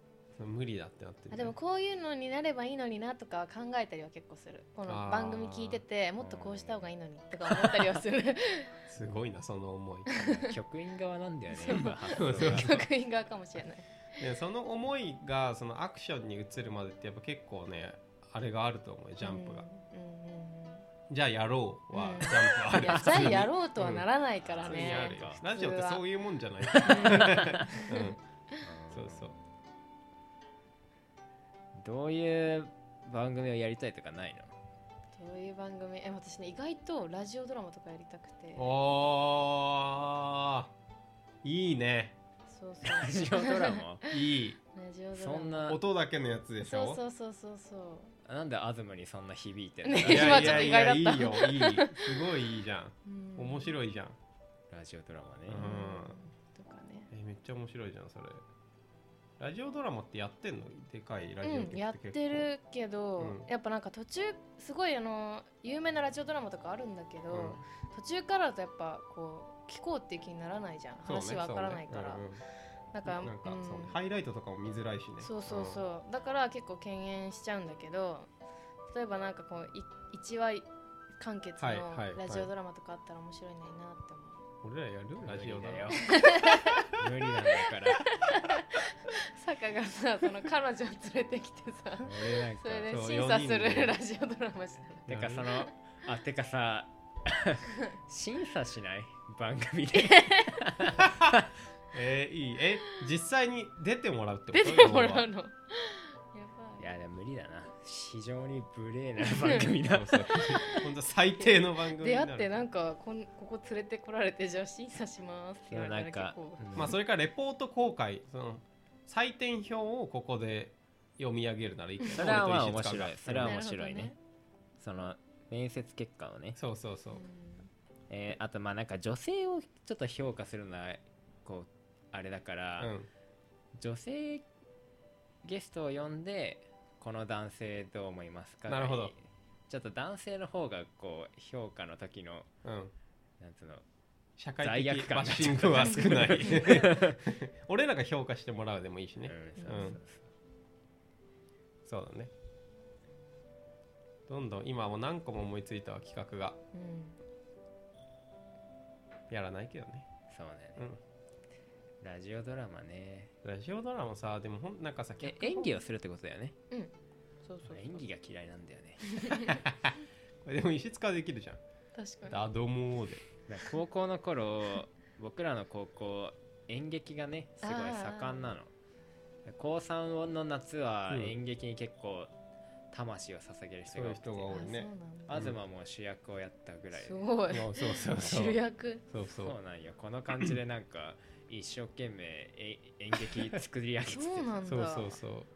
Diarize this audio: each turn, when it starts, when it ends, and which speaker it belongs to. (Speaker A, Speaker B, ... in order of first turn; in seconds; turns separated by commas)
Speaker A: 0.4-1.6, Speaker B: 1.3-8.8, Speaker A: 4.9-5.8, Speaker C: 6.2-6.9, Speaker A: 8.9-10.1, Speaker B: 10.1-10.6, Speaker C: 10.1-12.8, Speaker B: 11.5-13.8, Speaker A: 11.8-12.9, Speaker A: 14.2-19.7, Speaker B: 19.2-20.9, Speaker A: 21.1-24.1, Speaker B: 21.9-26.1, Speaker C: 22.9-23.4, Speaker C: 24.4-25.4, Speaker A: 24.6-28.2, Speaker B: 26.8-28.6, Speaker C: 26.9-27.9, Speaker C: 28.6-29.3, Speaker A: 28.9-29.4, Speaker C: 31.8-34.5, Speaker B: 35.1-38.7, Speaker A: 38.5-40.7, Speaker A: 41.4-42.2, Speaker B: 42.5-45.8, Speaker C: 42.8-44.1, Speaker A: 44.1-44.6, Speaker C: 45.1-45.8, Speaker A: 45.7-47.0, Speaker B: 46.6-48.2, Speaker C: 48.2-51.0, Speaker B: 49.8-52.4, Speaker A: 50.0-54.2, Speaker B: 53.0-53.8, Speaker C: 54.7-55.7, Speaker A: 55.5-56.2, Speaker B: 55.6-57.1, Speaker A: 57.1-58.4, Speaker A: 59.4-62.5, Speaker B: 61.4-72.2, Speaker A: 63.2-63.5, Speaker A: 67.3-67.6, Speaker A: 71.0-72.4, Speaker B: 72.9-74.0, Speaker A: 73.0-75.9, Speaker B: 75.2-78.3, Speaker B: 78.9-80.7, Speaker B: 81.2-84.5, Speaker A: 81.6-82.5, Speaker A: 84.6-86.0, Speaker C: 85.2-88.1, Speaker B: 86.0-87.0, Speaker B: 87.5-95.1, Speaker C: 92.0-93.0, Speaker A: 92.9-94.0, Speaker C: 95.1-101.5, Speaker A: 95.1-95.5, Speaker B: 100.0-100.5, Speaker A: 101.0-101.3, Speaker A: 101.9-105.3, Speaker B: 104.5-106.9, Speaker C: 106.8-110.3, Speaker B: 109.4-109.7, Speaker A: 109.8-112.7, Speaker B: 110.3-116.7, Speaker C: 115.7-117.0, Speaker A: 116.8-123.6, Speaker C: 122.1-124.2, Speaker B: 123.3-124.2, Speaker C: 124.8-126.6, Speaker A: 126.6-127.2, Speaker B: 127.1-127.7, Speaker C: 128.1-132.9, Speaker A: 132.8-133.1, Speaker C: 133.8-134.5, Speaker C: 135.4-142.5, Speaker A: 138.7-139.1, Speaker A: 142.7-142.9, Speaker C: 143.4-143.8, Speaker A: 144.4-150.0, Speaker C: 144.6-147.2, Speaker C: 149.2-150.2, Speaker B: 149.6-150.0, Speaker A: 151.9-152.3, Speaker A: 154.3-156.6, Speaker B: 156.7-157.2, Speaker A: 159.3-160.1, Speaker C: 160.3-160.9, Speaker C: 162.0-163.3, Speaker A: 163.4-165.7, Speaker C: 165.2-166.6, Speaker B: 167.4-168.0, Speaker C: 167.7-169.6, Speaker B: 169.1-169.5, Speaker A: 169.7-169.9, Speaker A: 170.4-171.6, Speaker B: 172.0-172.4, Speaker A: 172.2-173.2, Speaker C: 173.5-178.7, Speaker B: 177.6-178.5, Speaker C: 179.5-182.3, Speaker A: 181.1-181.3, Speaker C: 182.9-184.6, Speaker A: 183.9-185.6, Speaker B: 184.5-185.5, Speaker C: 185.3-187.3, Speaker B: 186.9-189.1, Speaker A: 187.5-189.6, Speaker C: 189.3-194.5, Speaker B: 194.1-195.2, Speaker A: 194.6-195.5